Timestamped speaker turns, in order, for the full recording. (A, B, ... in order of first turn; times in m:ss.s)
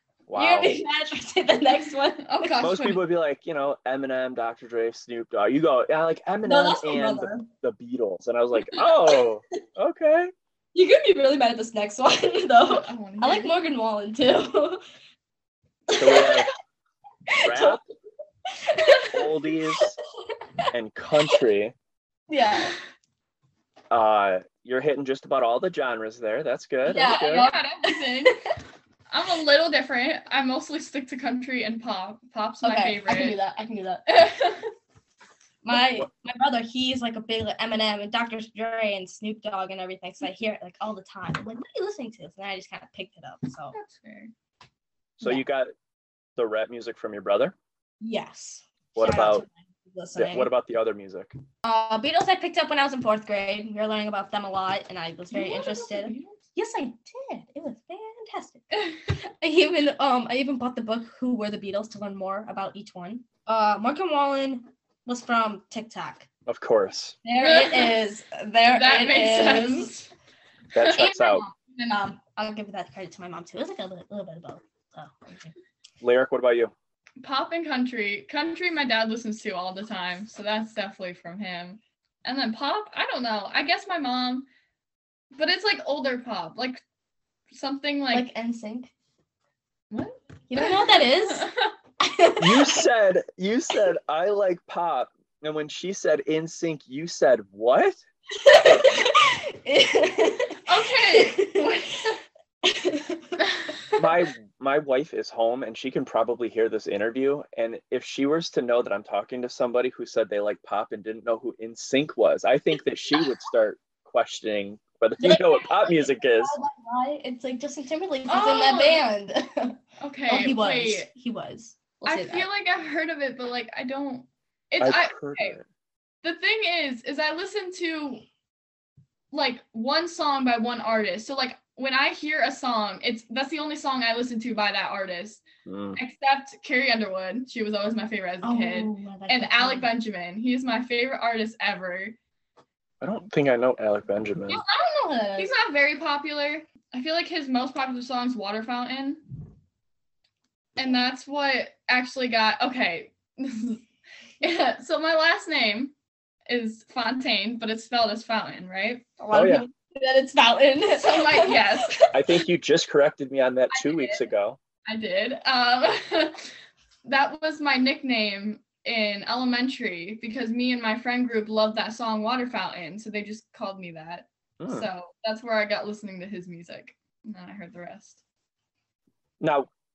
0:00.3-0:00.8 A
0:00.3-0:02.7 B
0:02.2-0:03.0 C
0:02.6-0:10.3 A
0:06.4-0:07.5 B
0:08.8-0:09.2 B
0:10.7-0:14.8 B
0:12.7-0:13.6 C
0:15.9-0:16.4 B
0:15.9-0:16.5 A
0:17.3-0:17.8 B
0:17.4-0:17.8 A
0:18.5-0:19.3 B
0:19.1-0:20.0 A
0:20.7-0:21.7 A
0:22.3-0:22.8 B
0:23.9-0:27.5 A
0:26.8-0:28.4 B
0:26.9-0:28.4 C
0:29.1-0:33.4 C
0:32.6-0:34.0 B
0:34.1-0:34.7 C
0:35.6-0:43.7 B
0:43.7-0:44.3 C
0:45.2-0:45.7 A
0:46.4-0:47.5 A
0:48.0-0:50.5 B
0:49.0-0:49.4 A
0:50.2-0:51.3 A
0:51.6-0:58.7 B
0:55.3-0:56.4 C
0:59.4-1:06.3 B
1:06.4-1:07.2 A
1:07.2-1:09.9 B
1:07.4-1:08.0 C
1:08.7-1:10.1 C
1:10.7-1:11.4 A
1:10.8-1:11.5 C
1:11.8-1:15.5 B
1:16.0-1:16.7 A
1:17.2-1:24.4 C
1:25.3-1:26.8 C
1:27.5-1:28.3 C
1:28.1-1:28.9 B
1:29.9-1:31.7 C
1:30.5-1:31.5 B
1:32.0-1:32.8 B
1:32.4-1:38.0 A
1:38.4-1:42.1 B
1:40.7-1:42.1 C
1:42.6-1:43.5 B
1:44.0-1:56.5 A
1:55.2-2:02.5 B
1:58.3-1:59.0 C
2:00.0-2:01.1 C
2:02.0-2:05.6 C
2:04.8-2:05.6 A
2:06.2-2:08.2 C
2:09.3-2:15.4 C
2:15.6-2:16.0 A
2:15.9-2:22.2 C
2:18.4-2:19.9 B
2:23.0-2:24.6 A
2:24.5-2:25.5 B
2:25.4-2:29.2 C
2:30.8-2:33.8 C
2:34.4-2:35.9 C
2:36.5-2:39.0 C
2:39.2-2:42.1 B
2:39.3-2:39.6 A
2:40.9-2:42.0 C
2:42.1-2:44.6 A
2:43.7-2:44.2 C
2:44.8-2:46.5 C
2:47.0-2:58.2 C
2:54.6-2:54.9 A
2:59.4-2:59.7 A